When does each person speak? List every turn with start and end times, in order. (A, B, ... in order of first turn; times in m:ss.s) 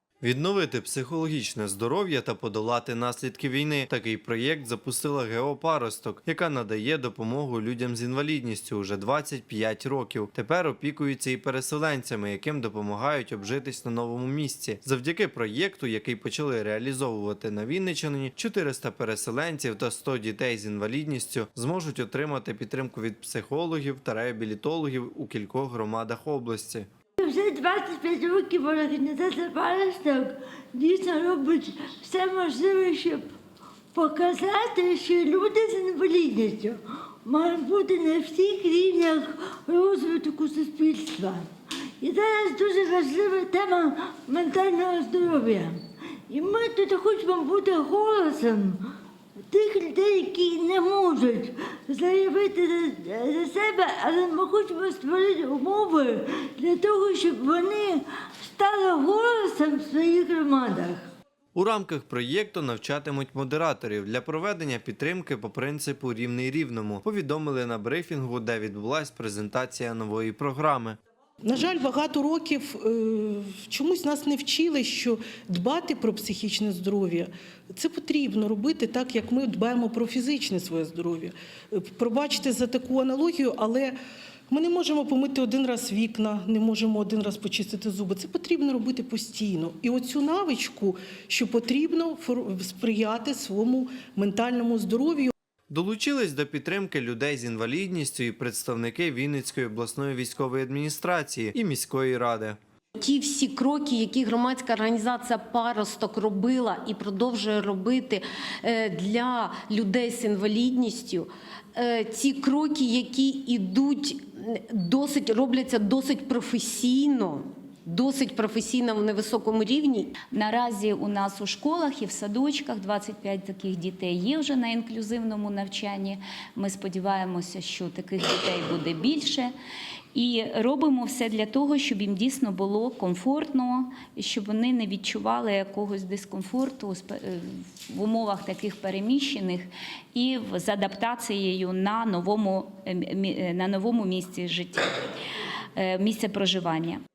0:00.2-0:26.9 A
0:27.2-0:33.3 B
0:33.9-0:41.5 B
0:42.0-0:48.8 B
0:49.5-1:01.1 B
1:01.6-1:11.0 A
1:11.4-1:24.0 C
1:24.5-1:35.3 C
1:35.7-1:42.6 A
1:43.0-2:00.1 D
2:00.3-2:09.5 E
2:10.2-2:24.9 E
2:25.8-2:27.0 E